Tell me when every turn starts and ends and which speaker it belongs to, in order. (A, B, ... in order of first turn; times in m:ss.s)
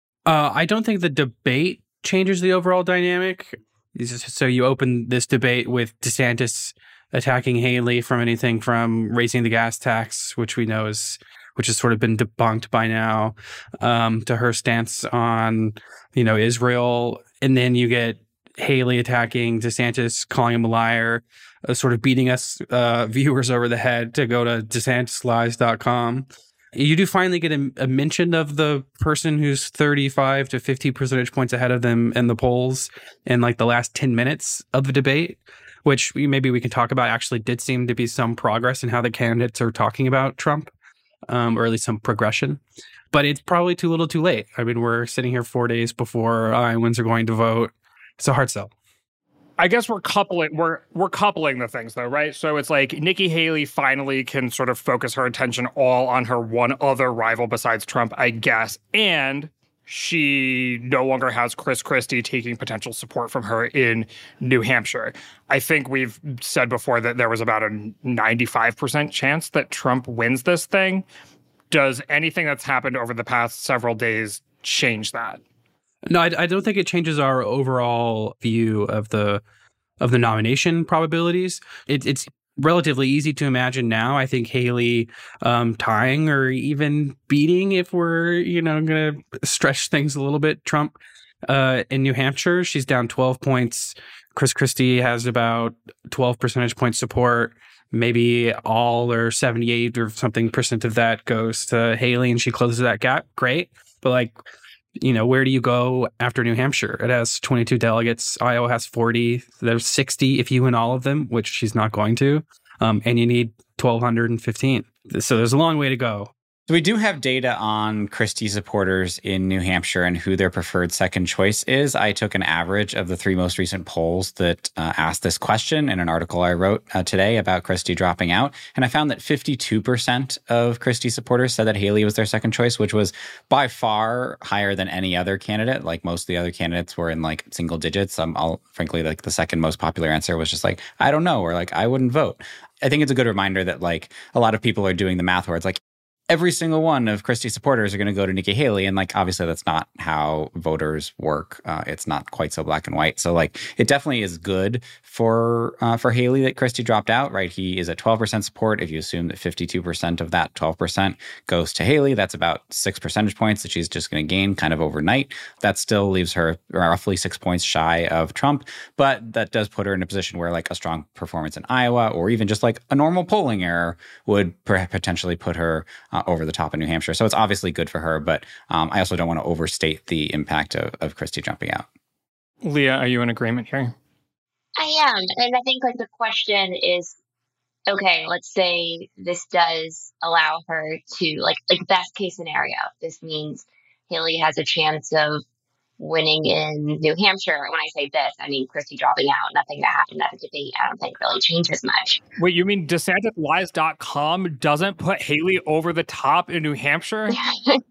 0:00.2-0:40.7 A
0:41.3-0:42.6 A
0:43.1-0:48.7 A
0:49.6-1:11.0 B
1:11.7-1:15.4 B
1:16.0-1:19.4 A
1:20.0-1:44.3 A
1:45.0-1:56.3 A
1:56.7-2:25.8 C
2:26.3-3:01.9 C
3:02.6-3:03.9 B
3:04.8-3:07.2 D
3:07.9-3:15.4 D
3:16.0-3:22.2 D
3:22.4-3:27.4 B
3:27.3-3:27.8 D